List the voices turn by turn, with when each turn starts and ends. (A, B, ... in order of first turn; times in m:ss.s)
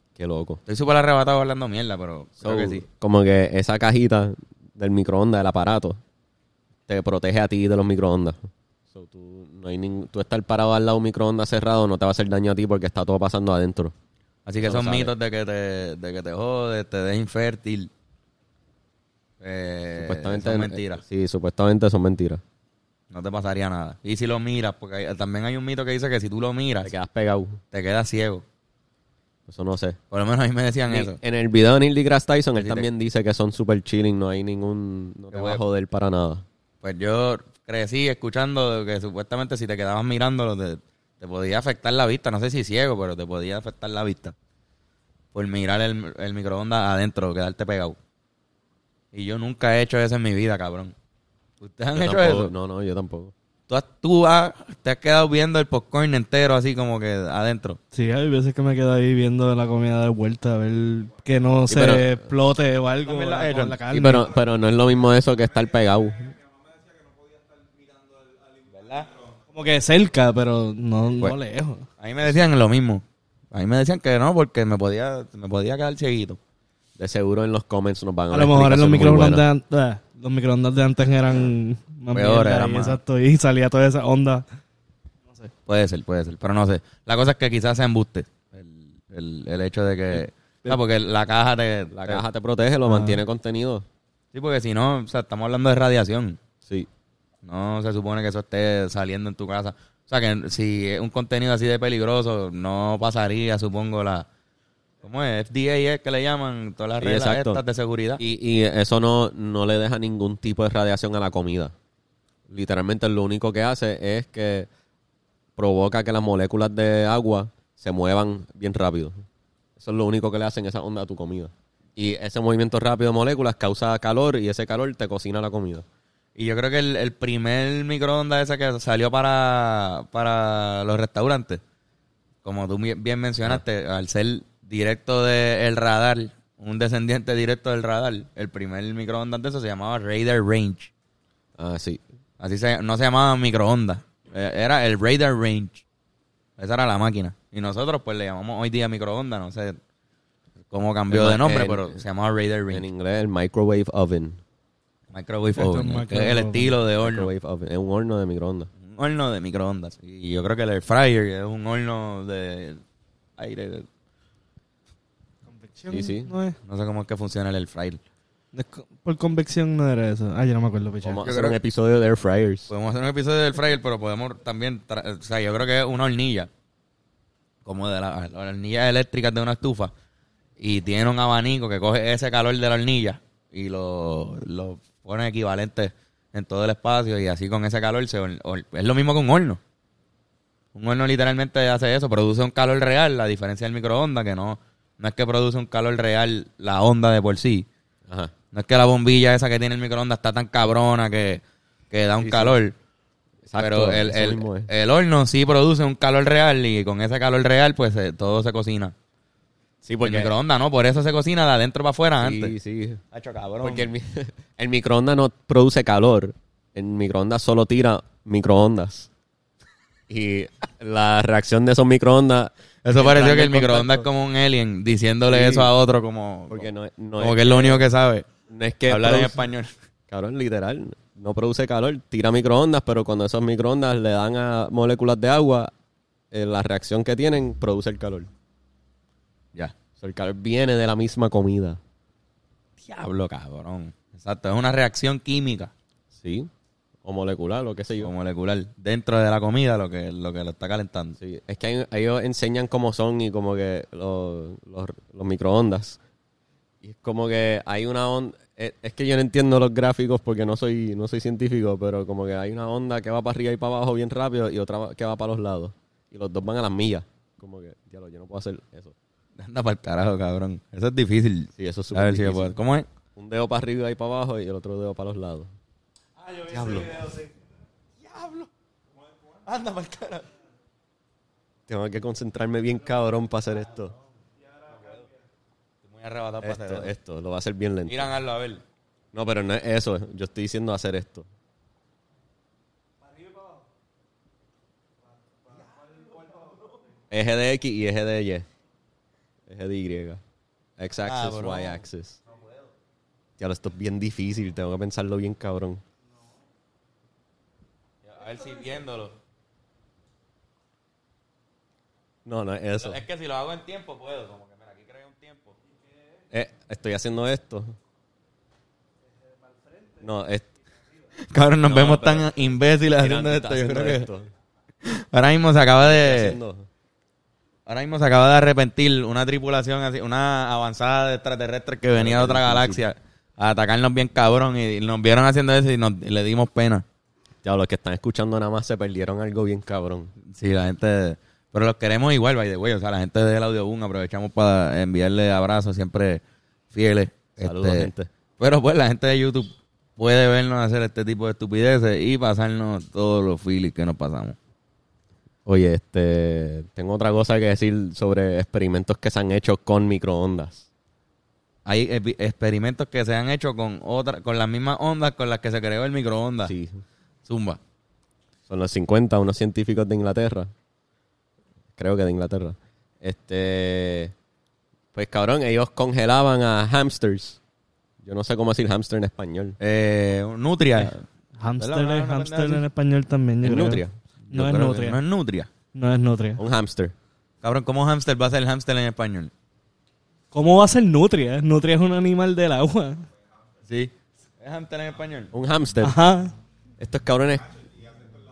0:00.2-0:00.6 A
0:00.7-0:02.8 B
0:02.4-0:06.0 A
0:06.9-0:13.9 A
0:14.5-0:17.9 B
0:14.6-0:15.1 A
0:19.4-0:21.0 B
0:19.9-0:22.4 A
0:23.1-0:26.9 B
0:26.8-0:27.6 A
0:27.7-0:28.4 B
0:29.5-0:30.0 A
0:30.1-0:31.2 B
0:30.9-0:36.4 A
0:32.6-0:32.9 B
0:35.3-0:35.6 B
0:36.8-0:44.4 B
0:45.3-0:48.0 B
0:49.1-0:50.9 B
0:51.6-0:52.5 B
0:52.0-0:53.3 A
0:53.7-0:57.8 B
0:57.9-1:04.4 C
1:01.7-1:02.2 A
1:03.0-1:03.8 B
1:03.9-1:06.4 A
1:08.7-1:09.1 B
1:09.5-1:11.8 C
1:12.0-1:16.4 B
1:17.0-1:19.4 A
1:18.3-1:24.4 C
1:22.1-1:23.0 B
1:25.7-1:32.2 B
1:31.9-1:33.8 A
1:32.9-1:33.2 C
1:34.3-1:36.4 B
1:37.4-1:44.3 B
1:45.0-1:48.2 B
1:47.0-1:47.6 A
1:48.2-1:51.7 A
1:52.5-1:54.7 A
1:55.6-1:59.2 A
1:59.8-2:05.8 A
2:06.4-2:11.6 B
2:12.4-2:20.9 B
2:21.6-2:22.0 A
2:22.4-2:25.8 B
2:26.6-2:29.8 B
2:30.7-2:32.8 B
2:31.1-2:32.0 A
2:32.7-2:34.4 A
2:35.1-2:37.3 B
2:35.6-2:36.7 C
2:37.0-2:38.7 A
2:38.8-2:42.8 B
2:43.4-2:43.9 B
2:45.5-2:46.6 C
2:45.9-2:46.3 A
2:46.7-2:48.0 B
2:48.5-2:51.3 C
2:51.0-2:52.7 A
2:51.2-2:51.6 B
2:52.7-2:56.5 B
2:57.6-2:59.9 B
3:00.6-3:09.6 B
3:10.8-3:17.7 B
3:18.5-3:22.8 B
3:22.2-3:22.6 A
3:23.5-3:24.7 A
3:23.6-3:28.9 B
3:29.8-3:30.3 A
3:30.0-3:32.5 B
3:32.2-3:33.0 A
3:33.1-3:33.9 B
3:33.6-3:39.1 A
3:40.1-3:44.1 A
3:42.8-3:46.7 B
3:45.3-3:45.7 A
3:46.5-3:47.9 A
3:47.2-3:48.3 B
3:48.5-3:49.4 A
3:48.9-3:49.7 B
3:50.1-3:55.7 A
3:56.3-3:58.3 A
4:00.0-4:01.8 A
4:02.8-4:05.7 B
4:06.1-4:06.5 A
4:07.0-4:08.1 A
4:08.0-4:11.2 B
4:11.2-4:16.0 A
4:16.8-4:29.0 A
4:29.4-4:32.9 B
4:31.6-4:32.6 A
4:33.2-4:35.5 A
4:36.5-4:37.0 A
4:37.0-4:37.3 C
4:38.0-4:38.5 B
4:39.4-4:40.3 B
4:41.7-4:44.0 A
4:44.4-4:45.1 C
4:45.8-4:46.9 B
4:46.4-4:48.1 A
4:47.9-4:48.6 B
4:49.1-4:51.3 A
4:53.1-4:53.6 C
4:55.9-4:56.7 C
4:57.1-4:58.5 A
4:59.5-5:00.2 A
5:00.8-5:02.2 A
5:01.0-5:01.8 B
5:03.4-5:05.8 A
5:08.0-5:09.2 B
5:12.2-5:13.0 A
5:12.8-5:15.6 B
5:16.3-5:17.8 A
5:20.0-5:20.5 A
5:21.2-5:24.1 B
5:21.7-5:22.3 A
5:23.0-5:24.3 A
5:24.8-5:26.4 B
5:25.8-5:26.7 A
5:27.7-5:36.8 B
5:31.9-5:32.8 A
5:37.4-5:40.1 A
5:40.3-5:46.2 B
5:46.7-5:54.4 B
5:47.4-5:48.1 A
5:55.5-6:00.7 A
6:01.6-6:06.5 B
6:06.4-6:06.8 A
6:07.3-6:07.6 B
6:08.5-6:10.5 A
6:11.8-6:14.1 A
6:14.9-6:17.4 A
6:18.0-6:19.6 A
6:19.6-6:21.1 B
6:21.4-6:25.0 C
6:21.6-6:22.6 B
6:23.4-6:24.0 A
6:24.3-6:25.5 B
6:25.7-6:26.4 C
6:26.4-6:26.9 A
6:27.4-6:29.3 B
6:30.3-6:33.1 C
6:33.7-6:35.3 B
6:35.3-6:36.0 A
6:35.8-6:36.3 C
6:36.8-6:37.5 A